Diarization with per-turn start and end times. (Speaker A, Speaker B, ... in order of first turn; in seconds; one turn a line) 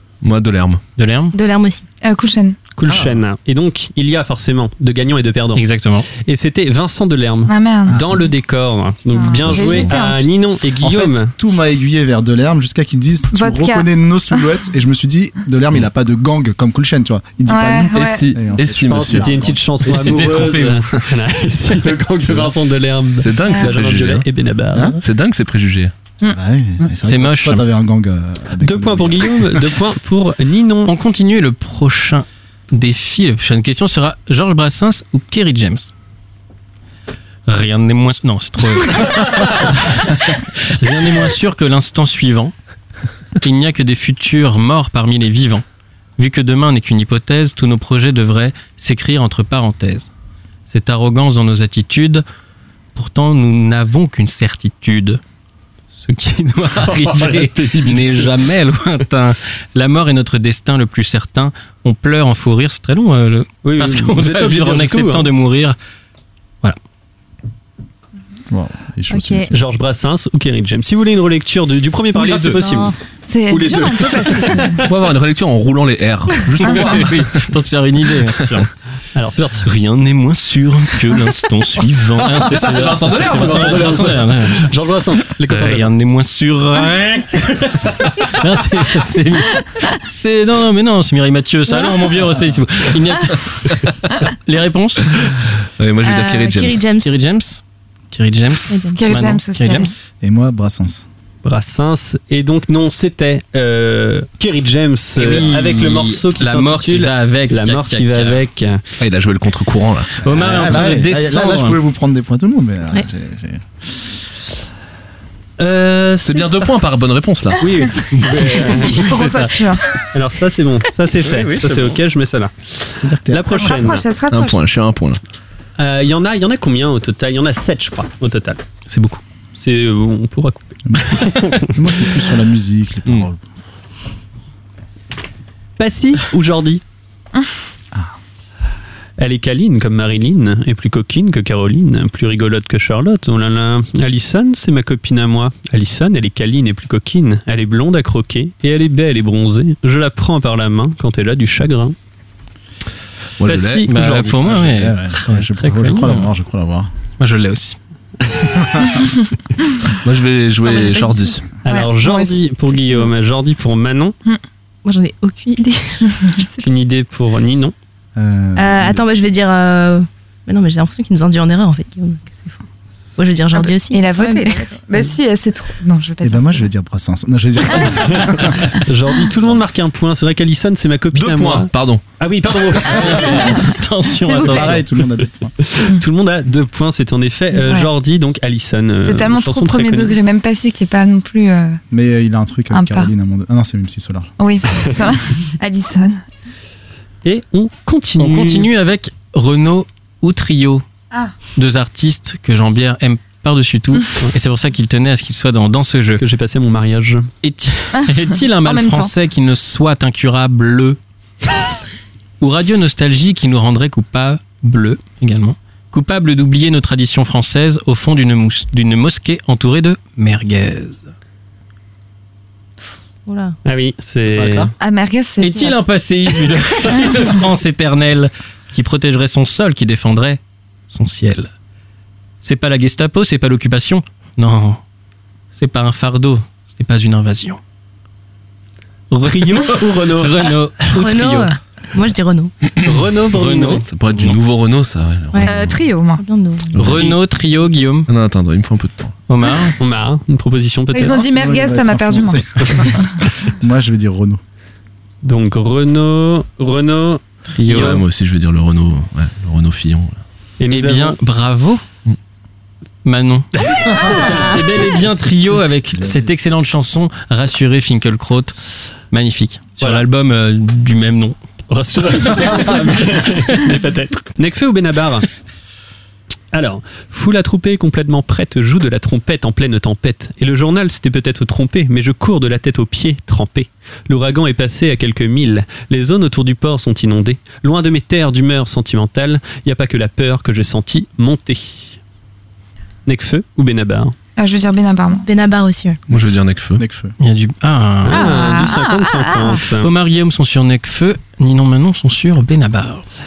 Speaker A: 0.2-0.8
Speaker B: 1.0-1.3
Speaker C: 1.3-1.9
Speaker D: 2.0-2.6
Speaker E: 2.8-5.6
Speaker B: 5.5-6.1
Speaker E: 6.2-11.3
Speaker D: 7.5-8.1
Speaker F: 7.9-8.2
Speaker D: 9.1-10.3
Speaker F: 10.8-19.6
Speaker D: 13.3-14.4
Speaker D: 17.5-18.3
Speaker A: 17.9-19.4
Speaker E: 18.8-25.0
Speaker B: 19.8-21.0
Speaker A: 23.2-24.3
Speaker D: 23.5-23.8
Speaker A: 25.0-25.9
Speaker F: 26.3-29.6
Speaker B: 27.0-27.6
Speaker E: 28.6-30.9
Speaker B: 30.9-35.9
Speaker B: 37.5-42.5
Speaker B: 43.4-45.6
Speaker B: 46.2-50.1
Speaker B: 50.7-52.2
Speaker B: 52.9-55.2
Speaker B: 56.0-65.8
Speaker E: 63.6-65.3
Speaker F: 68.5-69.5
Speaker C: 69.1-69.5
Speaker E: 69.5-72.9
Speaker A: 72.1-72.6
Speaker C: 72.5-72.9
Speaker D: 73.3-74.8
Speaker E: 73.5-74.8
Speaker A: 74.8-77.3
Speaker B: 76.7-78.7
Speaker E: 79.1-79.7
Speaker B: 79.6-84.7
Speaker A: 82.5-84.2
Speaker E: 83.2-85.9
Speaker B: 85.5-93.7
Speaker B: 94.2-95.1
Speaker A: 95.8-96.8
Speaker C: 96.0-97.2
Speaker B: 97.0-99.9
Speaker C: 98.7-99.0
Speaker D: 99.0-99.9
Speaker F: 100.2-101.0
Speaker E: 101.4-108.8
Speaker B: 105.2-108.4
Speaker A: 109.0-110.1
Speaker B: 110.2-111.8
Speaker F: 110.2-114.0
Speaker E: 115.6-116.5
Speaker A: 116.2-117.7
Speaker E: 117.6-124.0
Speaker D: 119.0-120.0
Speaker B: 121.3-121.9
Speaker F: 123.0-123.9
Speaker D: 123.5-124.6
Speaker A: 124.3-125.2
Speaker E: 125.8-131.8
Speaker F: 130.9-133.4
Speaker E: 135.8-136.8
Speaker E: 139.2-151.9
Speaker A: 153.4-153.9
Speaker E: 153.4-154.4
Speaker B: 153.8-156.3
Speaker F: 154.4-156.9
Speaker B: 157.2-157.8
Speaker F: 158.6-158.9
Speaker A: 160.0-161.4
Speaker C: 160.6-161.3
Speaker E: 161.6-164.1
Speaker D: 161.7-162.4
Speaker C: 162.7-163.1
Speaker C: 164.8-166.7
Speaker E: 166.6-167.7
Speaker F: 168.2-169.0
Speaker C: 168.6-172.6
Speaker C: 173.2-174.7
Speaker D: 173.5-176.7
Speaker F: 176.2-178.7
Speaker E: 178.8-183.7
Speaker A: 181.1-182.0
Speaker D: 183.0-184.8
Speaker B: 183.1-184.8
Speaker F: 184.3-185.5
Speaker E: 185.6-190.2
Speaker D: 187.5-187.9
Speaker D: 189.0-191.8
Speaker F: 191.9-194.3
Speaker D: 192.7-193.1
Speaker D: 194.4-196.2
Speaker E: 197.2-198.7
Speaker B: 198.2-200.8
Speaker B: 201.6-206.2
Speaker E: 206.2-207.3
Speaker B: 207.4-211.0
Speaker D: 208.6-209.1
Speaker B: 212.4-221.0
Speaker C: 223.2-223.6
Speaker E: 223.6-224.7
Speaker F: 224.2-224.7
Speaker D: 224.8-225.8
Speaker B: 225.4-231.5
Speaker B: 232.4-234.8
Speaker B: 235.5-237.6
Speaker B: 239.1-241.5
Speaker E: 239.2-240.5
Speaker C: 240.9-242.6
Speaker E: 242.8-243.8
Speaker B: 243.3-244.4
Speaker A: 243.9-245.8
Speaker D: 245.4-246.2
Speaker C: 246.2-246.8
Speaker A: 246.8-247.1
Speaker B: 246.8-248.1
Speaker A: 248.1-249.2
Speaker B: 249.3-249.8
Speaker E: 249.8-251.3
Speaker D: 250.9-253.1
Speaker F: 251.0-254.4
Speaker E: 255.2-257.2
Speaker B: 257.5-258.0
Speaker A: 257.7-260.2
Speaker E: 260.6-261.2
Speaker B: 260.7-261.8
Speaker B: 263.0-268.5
Speaker E: 263.8-264.5
Speaker F: 265.9-266.4
Speaker B: 269.1-271.4
Speaker E: 269.8-270.1
Speaker E: 271.7-275.2
Speaker E: 276.5-292.0
Speaker E: 293.1-294.1
Speaker D: 294.4-295.2
Speaker C: 295.2-296.0
Speaker A: 296.1-296.8
Speaker F: 296.8-297.1
Speaker B: 297.2-298.3
Speaker E: 298.0-299.9
Speaker D: 298.1-299.6
Speaker B: 299.8-303.0